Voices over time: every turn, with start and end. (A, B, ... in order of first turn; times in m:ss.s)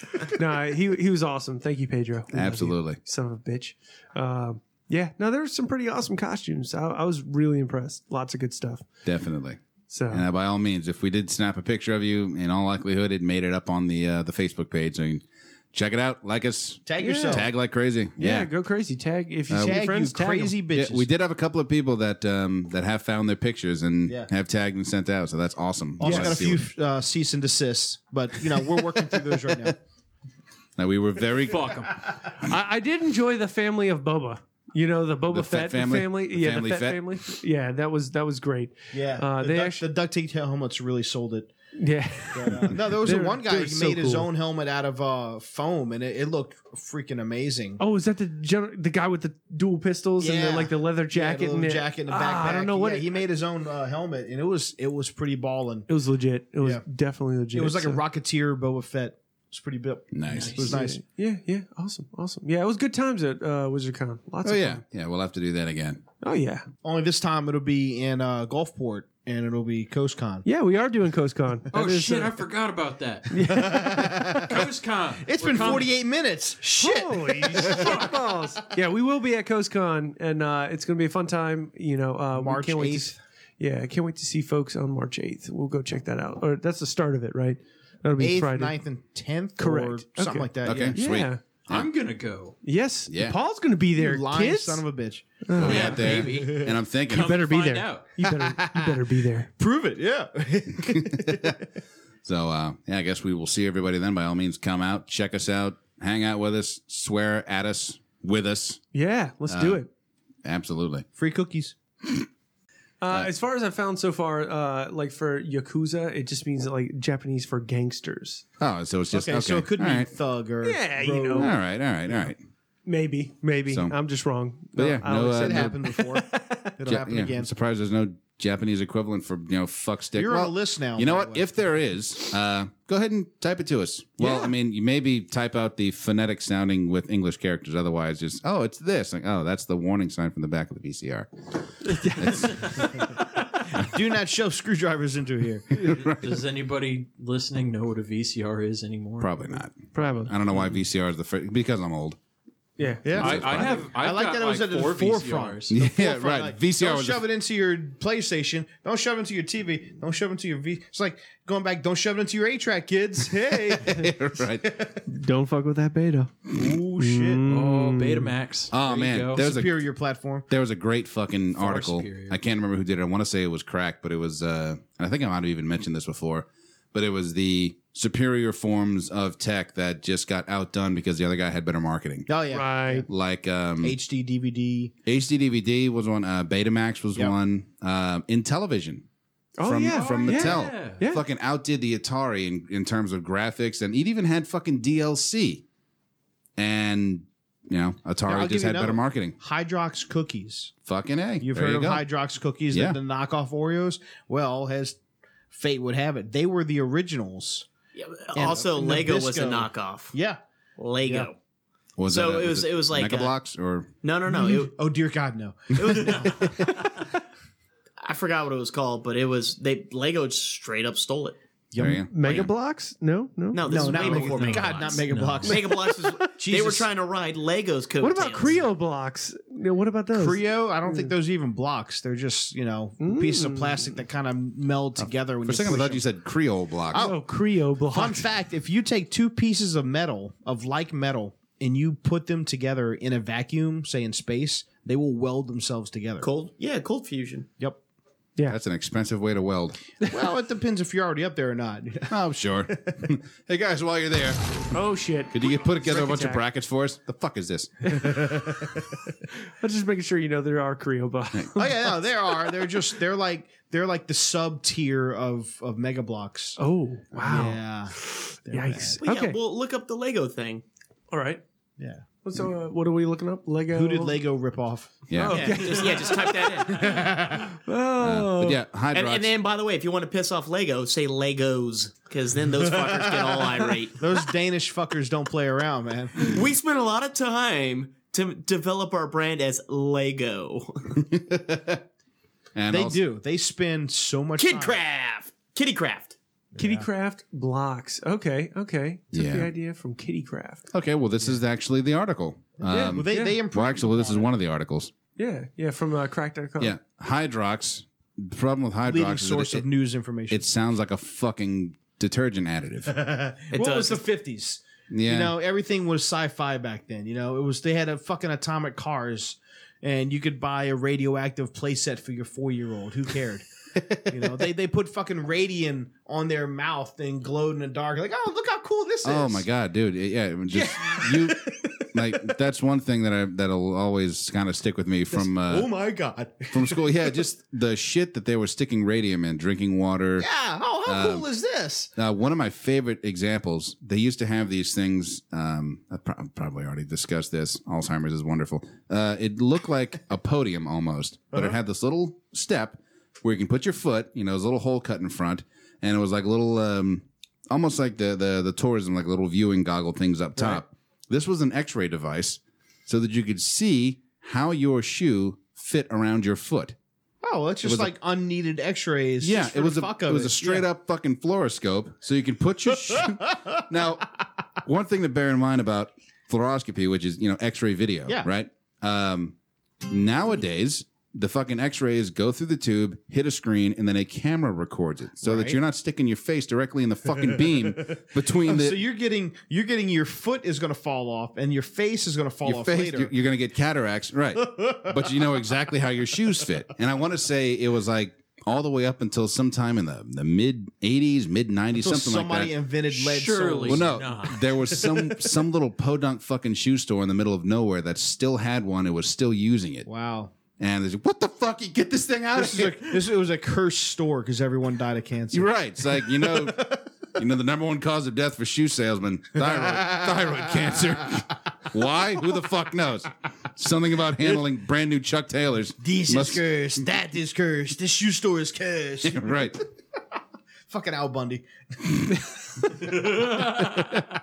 0:00.4-0:08.9 A
0:02.3-0:03.0 B
0:09.1-0:18.5 B
0:09.9-0:10.3 A
0:16.9-0:17.5 C
0:17.0-0:17.5 A
0:18.2-0:20.6 A
0:19.5-0:19.8 B
0:19.5-0:21.1 C
0:20.8-0:26.6 B
0:26.0-0:29.8 C
0:26.0-0:26.5 A
0:30.8-0:31.9 B
0:31.5-0:32.0 D
0:32.4-0:39.9 A
0:35.3-0:37.2 B
0:38.9-0:41.5 C
0:41.8-0:44.3 A
0:42.3-0:47.8 C
0:47.8-0:53.2 A
0:50.2-0:55.9 C
0:55.9-0:58.0 A
0:57.5-1:01.0 C
1:00.1-1:00.6 B
1:00.3-1:00.8 D
1:00.7-1:04.8 A
1:04.4-1:06.0 B
1:06.2-1:06.6 A
1:06.8-1:10.5 C
1:10.5-1:12.4 A
1:11.7-1:13.3 D
1:13.3-1:14.3 A
1:13.5-1:14.7 C
1:14.5-1:15.9 D
1:15.2-1:18.1 C
1:16.6-1:28.8 A
1:17.8-1:18.0 D
1:22.3-1:23.2 C
1:28.2-1:31.0 C
1:29.6-1:31.4 A
1:30.6-1:31.9 B
1:31.7-1:32.6 D
1:32.6-1:34.9 A
1:33.1-1:33.4 B
1:34.0-1:36.8 C
1:35.4-1:36.2 A
1:35.6-1:37.5 B
1:35.6-1:38.1 D
1:37.2-1:39.5 A
1:38.2-1:39.0 C
1:39.6-1:41.6 C
1:40.8-1:41.5 B
1:42.2-1:48.8 B
1:48.9-1:49.9 A
1:49.5-1:49.8 B
1:50.4-1:51.1 B
1:51.2-1:51.8 C
1:53.0-1:58.4 A
1:58.6-2:00.1 B
1:59.1-2:01.5 C
2:00.6-2:01.6 A
2:01.4-2:02.4 B
2:02.8-2:06.4 A
2:03.7-2:04.0 B
2:04.8-2:05.8 B
2:05.0-2:07.5 C
2:06.8-2:22.6 B
2:10.2-2:11.5 C
2:21.9-2:22.6 A
2:23.7-2:25.9 C
2:25.8-2:26.2 B
2:25.9-2:29.4 D
2:29.2-2:32.2 B
2:29.9-2:30.4 A
2:32.8-2:33.2 A
2:33.0-2:44.1 C
2:33.2-2:35.8 D
2:33.2-2:33.9 B
2:35.7-2:37.2 B
2:43.7-2:44.8 B
2:45.1-2:48.4 A
2:46.5-2:47.4 C
2:47.5-2:49.4 D
2:48.7-2:49.8 B
2:49.3-2:50.5 C
2:50.5-3:02.3 B
2:51.6-2:52.4 D
3:02.3-3:03.1 C
3:02.5-3:03.1 A
3:03.1-3:04.0 B
3:03.8-3:04.9 C
3:05.1-3:09.1 B
3:09.6-3:11.2 A
3:09.6-3:15.6 B
3:09.9-3:11.0 D
3:16.6-3:19.4 B
3:18.3-3:20.7 C
3:20.9-3:22.1 B
3:21.4-3:25.0 C
3:22.7-3:23.0 B
3:25.5-3:27.7 C
3:28.0-3:30.2 E
3:28.4-3:30.4 C
3:30.8-3:31.4 E
3:31.0-3:31.3 C
3:32.0-3:33.9 B
3:32.1-3:33.4 E
3:34.0-3:34.8 E
3:34.3-3:37.0 C
3:35.7-3:36.5 E
3:38.0-3:41.4 E
3:41.7-3:42.0 C
3:41.8-3:42.5 B
3:42.0-3:44.2 A
3:43.5-3:48.7 E
3:43.6-3:46.9 C
3:44.2-3:45.6 D
3:45.7-3:46.0 A
3:48.0-3:51.2 A
3:50.1-3:56.0 C
3:53.0-3:54.0 A
3:55.0-3:57.1 B
3:56.9-3:57.3 C
3:56.9-3:58.3 A
3:57.8-4:06.3 C
4:06.2-4:07.5 E
4:08.5-4:09.8 B
4:10.1-4:12.2 C
4:12.1-4:14.6 B
4:12.8-4:13.1 C
4:14.7-4:16.4 A
4:15.3-4:17.9 B
4:17.8-4:18.5 A
4:19.6-4:22.5 A
4:21.6-4:26.6 C
4:26.6-4:29.4 A
4:27.2-4:29.0 C
4:29.0-4:30.6 E
4:31.1-4:31.4 A
4:31.8-4:32.1 C
4:32.2-4:34.3 A
4:33.7-4:35.5 C
4:35.1-4:35.6 B
4:35.1-4:36.4 A
4:35.3-4:36.9 E
4:36.4-4:37.5 C
4:37.4-4:38.6 A
4:38.0-4:39.3 B
4:38.9-4:44.0 E
4:42.8-4:46.4 C
4:46.2-4:50.8 E
4:51.1-4:51.8 B
4:52.6-4:53.0 B
4:52.7-4:54.8 C
4:54.4-4:56.2 E
4:56.6-4:56.9 C
4:56.6-5:00.7 A
4:59.1-4:59.5 B
5:00.7-5:04.9 B
5:02.6-5:04.3 C
5:02.7-5:03.4 A
5:05.2-5:06.8 A
5:06.6-5:09.7 B
5:08.9-5:10.5 C
5:10.3-5:13.0 B
5:12.9-5:23.4 C
5:13.5-5:14.0 E
5:14.9-5:15.4 B
5:24.1-5:29.4 C
5:29.0-5:35.7 B
5:30.5-5:31.8 C
5:35.1-5:36.9 C
5:36.5-5:40.3 B
5:40.2-5:41.9 C
5:40.8-5:41.3 B
5:42.0-6:06.8 B
6:07.2-6:10.7 C
6:07.6-6:07.9 B
6:09.2-6:14.1 B
6:14.6-6:19.4 B
6:19.9-6:28.8 B
6:25.2-6:25.6 C
6:28.4-6:33.1 C
6:32.4-6:42.5 B
6:34.4-6:35.1 C
6:41.8-6:44.0 C
6:42.9-6:44.4 D
6:43.7-6:49.9 B
6:44.8-6:45.2 C
6:49.9-6:50.3 C
6:50.6-6:53.1 B
6:52.4-6:56.8 C
6:55.3-7:06.4 B
6:59.4-7:01.0 C
7:05.8-7:09.6 C
7:09.0-7:09.6 B
7:10.7-7:13.2 C